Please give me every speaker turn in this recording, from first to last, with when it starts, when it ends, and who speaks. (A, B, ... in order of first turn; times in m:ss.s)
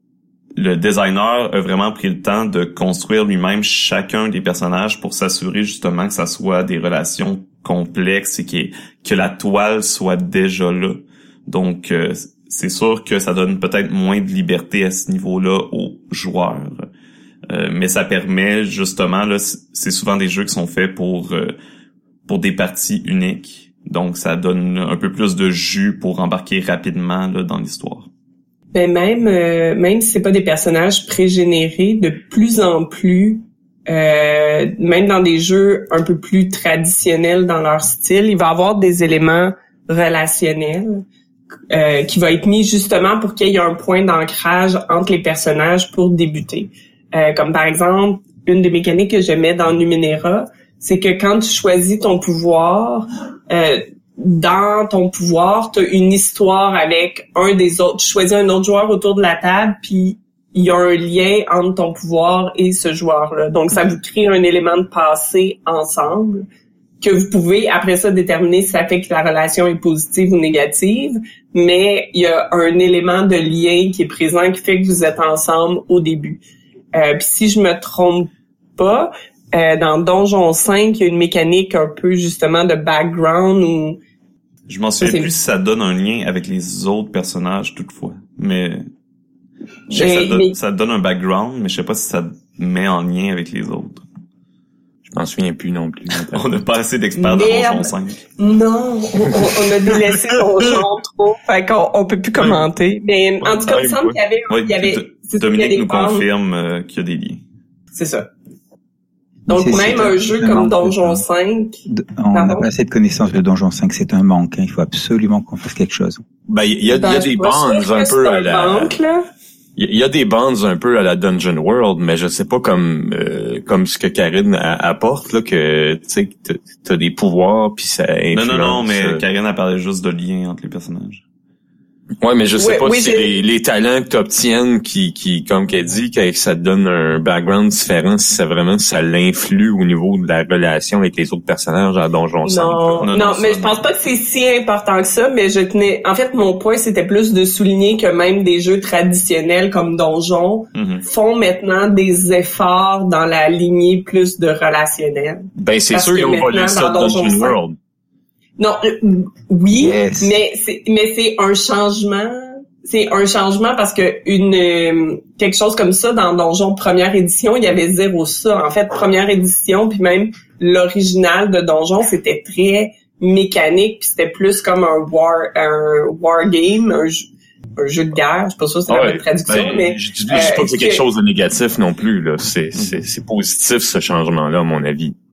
0:00.6-0:16.9 A
0:17.5-0:21.6 A
0:22.3-0:28.1 A
0:28.7-0:41.0 B
0:41.7-1:06.5 B
1:07.0-1:16.4 B
1:16.9-1:24.0 B
1:24.7-1:28.9 A
1:25.0-1:25.3 B
1:29.9-1:34.0 A
1:29.9-1:30.6 B
1:35.1-1:36.4 C
1:36.3-1:38.2 A
1:37.2-1:46.3 B
1:43.4-1:47.4 A
1:48.0-1:48.3 B
1:49.5-1:51.2 D
1:49.5-1:51.8 B
1:51.9-1:56.2 D
1:52.3-1:52.7 B
1:56.5-1:59.0 C
1:56.9-1:59.2 B
1:59.8-2:09.2 C
2:08.3-2:11.2 A
2:12.2-2:23.1 C
2:12.6-2:13.3 B
2:22.4-2:37.6 B
2:23.0-2:23.8 A
2:30.8-2:31.0 A
2:35.6-2:37.8 C
2:38.6-3:01.0 B
2:39.7-2:40.3 D
2:58.9-3:05.2 C
3:02.8-3:03.0 A